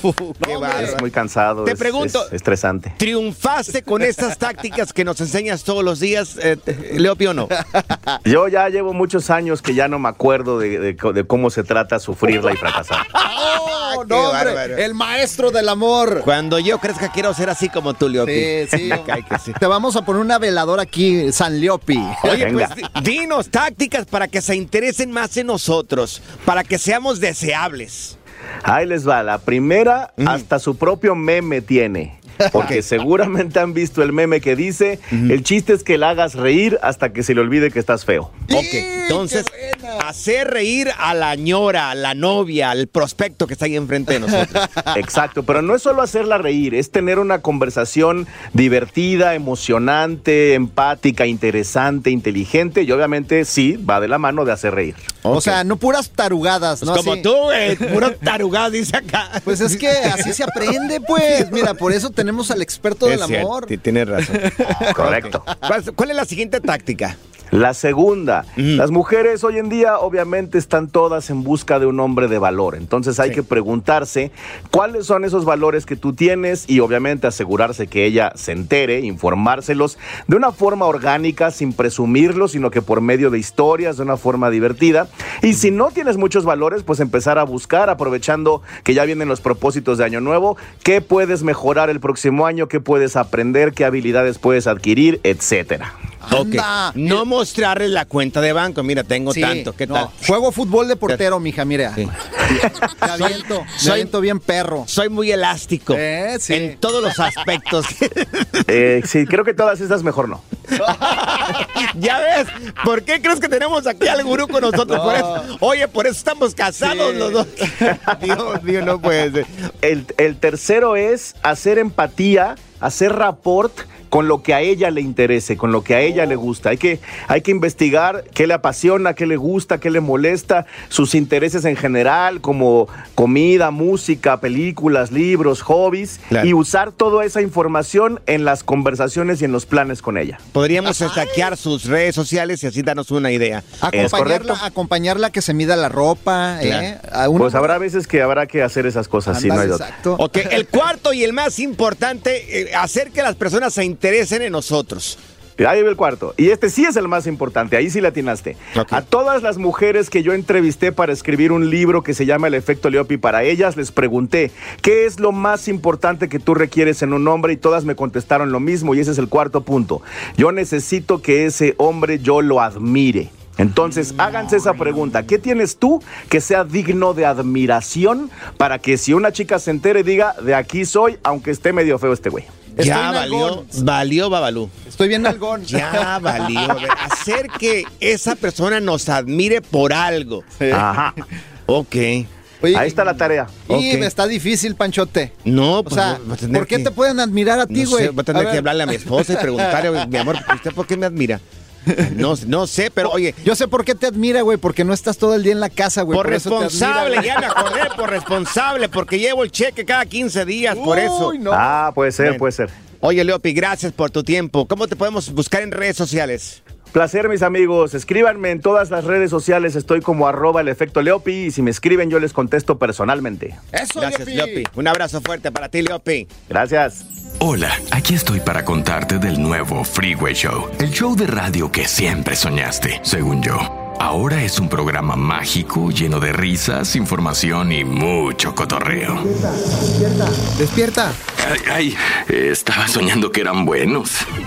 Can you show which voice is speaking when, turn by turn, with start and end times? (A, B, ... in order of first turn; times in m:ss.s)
0:00.3-0:01.0 A
0:00.4-0:01.1 B
0:00.7-0:03.0 C
0:01.6-0:02.3 B
0:03.0-0:07.5 B
0:07.7-0:08.2 A
0:08.2-0:13.1 C
0:13.1-0:16.3 A
0:13.7-0:14.8 B
0:16.2-0:19.6 B
0:18.2-0:22.6 A
0:22.2-0:28.2 B
0:22.3-0:22.7 C
0:28.6-0:38.4 C
0:32.5-0:32.8 B
0:38.5-0:40.1 A
0:38.5-0:44.7 B
0:44.4-0:44.9 A
0:44.9-0:55.1 C
0:55.2-0:55.6 B
0:55.3-0:57.3 A
0:56.8-1:00.4 B
0:59.5-1:03.7 A
1:03.0-1:07.2 B
1:04.6-1:05.2 A
1:04.9-1:05.4 C
1:07.5-1:35.9 C
1:08.6-1:08.8 B
1:36.2-1:37.2 A
1:36.3-1:40.2 B
1:39.3-1:42.1 A
1:43.0-1:44.9 A
1:43.0-1:44.1 B
1:44.9-1:48.6 B
1:45.9-1:46.8 A
1:48.7-1:50.4 C
1:50.8-1:51.7 A
1:51.0-1:59.7 B
1:54.8-1:55.5 A
1:56.8-1:57.5 A
1:59.8-2:20.4 C
2:20.5-2:24.3 B
2:21.0-2:21.5 A
2:23.8-2:27.8 A
2:23.9-2:24.6 C
2:27.4-2:29.9 C
2:29.3-2:30.2 A
2:30.2-2:35.2 B
2:35.6-3:02.6 C
2:38.8-2:39.0 B
2:53.8-2:55.1 B
3:02.8-3:03.8 A
3:02.8-3:04.7 B
3:04.9-3:06.8 A
3:05.7-3:10.5 B
3:10.6-3:10.8 A
3:10.7-3:11.2 C
3:11.7-3:12.3 B
3:12.6-3:13.1 A
3:12.7-3:13.6 C
3:13.7-3:20.4 A
3:13.7-3:14.1 B
3:15.4-3:16.9 B
3:17.7-3:21.4 B
3:22.0-3:23.4 B
3:23.0-3:27.8 A
3:26.1-3:31.4 B
3:30.7-3:31.7 A
3:31.5-3:32.7 C
3:33.0-3:36.6 B
3:36.9-3:43.6 C
3:43.7-3:44.7 A
3:44.0-3:46.3 B
3:46.5-3:47.0 C
3:47.4-3:59.3 D
3:59.6-4:01.2 A
4:01.3-4:04.2 D